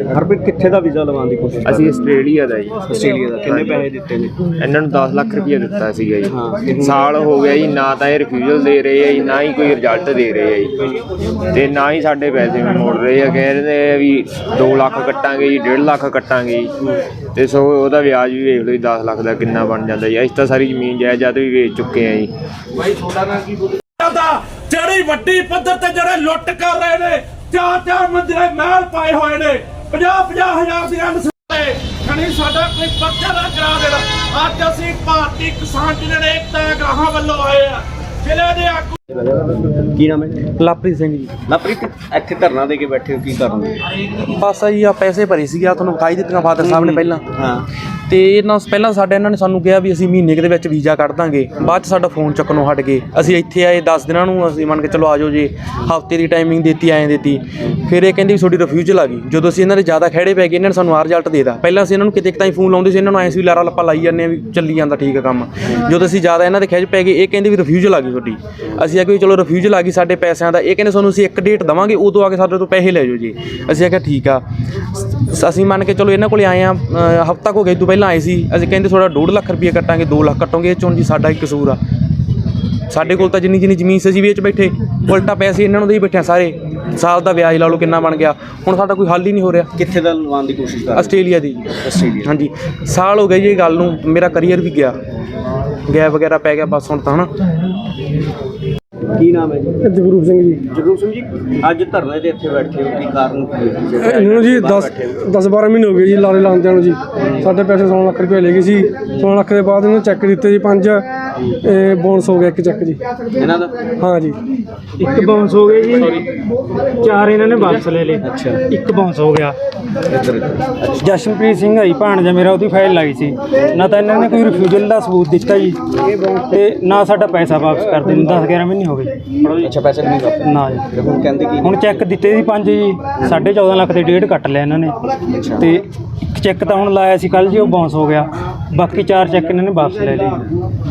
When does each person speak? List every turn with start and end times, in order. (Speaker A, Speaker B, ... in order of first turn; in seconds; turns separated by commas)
Speaker A: 0.1-2.0, Speaker B: 1.6-2.8, Speaker A: 2.8-4.5, Speaker B: 4.5-10.8, Speaker A: 6.3-7.1, Speaker B: 11.5-16.7, Speaker B: 17.3-22.3, Speaker C: 23.1-39.0, Speaker A: 39.1-40.5, Speaker D: 40.6-41.3, Speaker A: 41.5-43.8, Speaker D: 44.1-47.2, Speaker A: 46.6-47.7, Speaker D: 48.1-74.4, Speaker D: 75.3-81.8, Speaker D: 82.9-89.7, Speaker A: 89.7-91.2, Speaker D: 90.9-94.9, Speaker A: 91.8-92.3, Speaker D: 95.9-97.3, Speaker A: 99.2-99.8, Speaker E: 99.8-100.6, Speaker A: 100.7-105.2, Speaker E: 104.0-111.0, Speaker A: 107.2-107.5, Speaker E: 111.6-113.0, Speaker A: 113.4-113.9, Speaker E: 114.0-114.4, Speaker F: 115.0-116.2, Speaker F: 117.0-119.5, Speaker A: 118.2-118.6, Speaker A: 120.0-121.0, Speaker F: 121.0-125.8, Speaker A: 126.1-126.4, Speaker F: 126.5-129.2, Speaker A: 129.6-130.4, Speaker F: 130.4-130.9, Speaker A: 130.9-131.9, Speaker F: 131.6-135.0, Speaker F: 135.5-140.4